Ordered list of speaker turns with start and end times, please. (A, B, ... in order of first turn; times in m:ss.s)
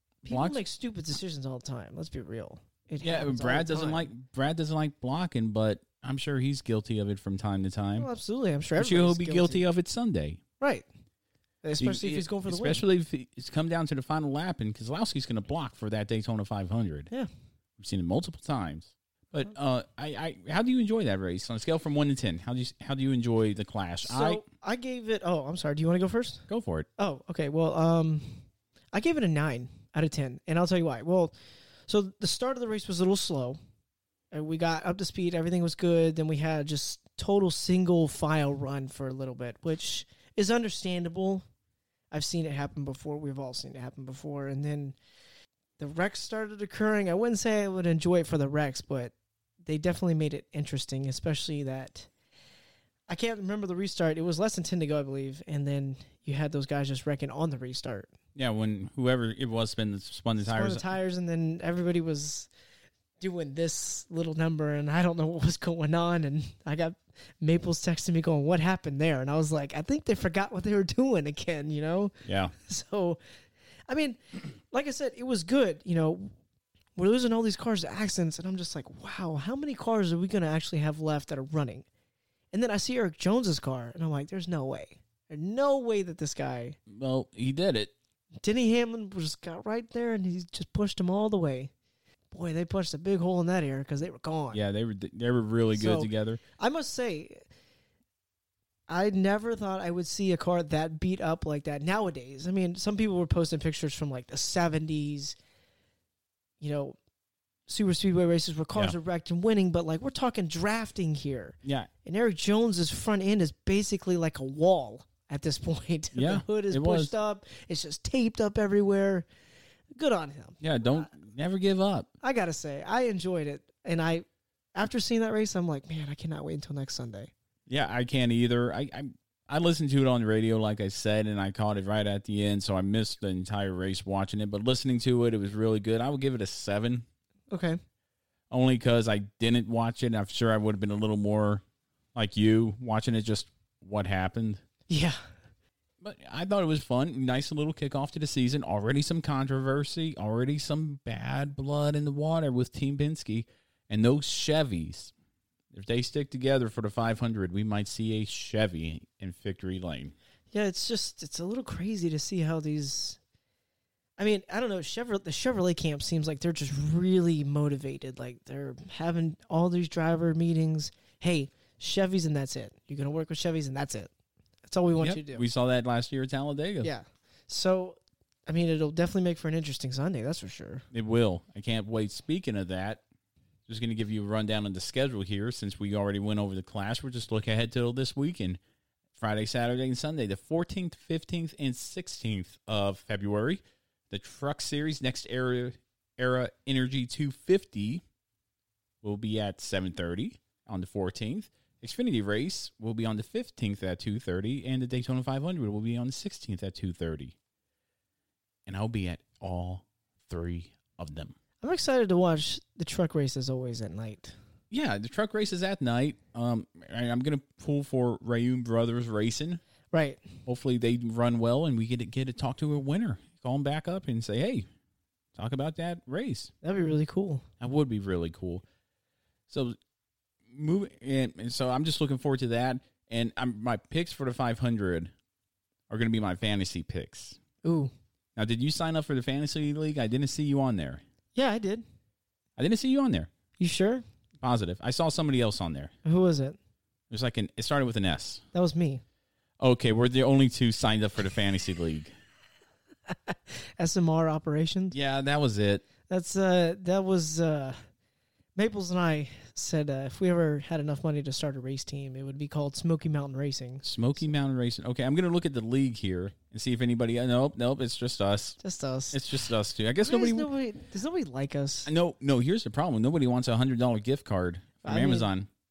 0:00.2-0:04.1 A
0:00.3-0:00.6 B
0:03.0-0:08.1 B
0:08.0-0:09.6 A
0:08.8-0:10.4 B
0:10.6-0:10.9 A
0:11.6-0:12.8 A
0:11.8-0:17.1 B
0:17.8-0:24.4 B
0:24.0-0:26.4 A
0:26.5-0:26.9 B
0:27.0-0:28.4 A
0:28.9-0:31.3 A
0:31.9-0:33.6 A
0:34.3-0:41.4 A
0:42.1-0:45.0 A
0:45.8-0:49.1 A
0:49.6-0:52.1 A
0:53.1-0:58.1 A
0:58.4-1:00.9 B
1:00.4-1:02.5 A
1:03.2-1:12.1 A
1:12.3-1:12.5 B
1:12.6-1:13.2 A
1:13.9-1:14.2 A
1:14.7-1:16.3 A
1:17.0-1:21.9 A
1:22.5-1:26.8 A
1:26.9-1:27.9 B
1:28.4-1:31.7 A
1:32.3-1:34.6 A
1:34.5-1:36.4 B
1:35.7-1:37.4 A
1:38.9-1:45.4 A
1:46.6-1:47.0 A
1:47.7-1:59.3 A
1:51.6-1:51.9 B
1:56.2-1:57.1 B
2:00.0-2:01.1 A
2:00.6-2:02.1 B
2:02.2-2:07.3 A
2:07.7-2:17.0 B
2:17.5-2:17.8 A
2:18.5-2:21.6 B
2:22.2-2:24.6 B
2:24.9-2:25.2 A
2:26.0-2:35.1 B
2:35.7-2:40.2 B
2:40.5-2:43.2 A
2:44.2-2:54.1 A
2:54.7-2:55.4 A
2:55.0-2:56.9 B
2:56.8-3:00.9 A
3:00.9-3:03.0 B
3:03.7-3:08.6 B
3:09.2-3:18.0 B
3:19.0-3:27.4 B
3:28.7-3:31.4 B
3:31.6-3:34.4 A
3:34.7-3:39.6 B
3:39.9-3:40.2 A
3:40.5-3:44.7 B
3:45.4-3:46.5 B
3:46.6-3:47.4 A
3:47.6-3:48.6 B
3:49.5-3:49.8 B
3:50.5-3:55.1 B
3:55.9-3:57.4 B
3:57.6-3:57.9 A
3:58.4-4:01.0 B
4:01.4-4:01.8 A
4:02.6-4:03.3 B
4:03.6-4:04.0 A
4:04.4-4:05.9 B
4:06.0-4:06.6 A
4:07.1-4:08.4 B
4:08.5-4:09.0 A
4:09.6-4:12.1 B
4:13.1-4:15.0 A
4:14.9-4:15.8 B
4:16.1-4:17.8 A
4:18.6-4:24.3 A
4:23.8-4:28.6 B
4:28.6-4:29.2 A
4:29.1-4:30.5 B
4:30.0-4:31.9 A
4:31.9-4:35.5 B
4:34.8-4:35.3 A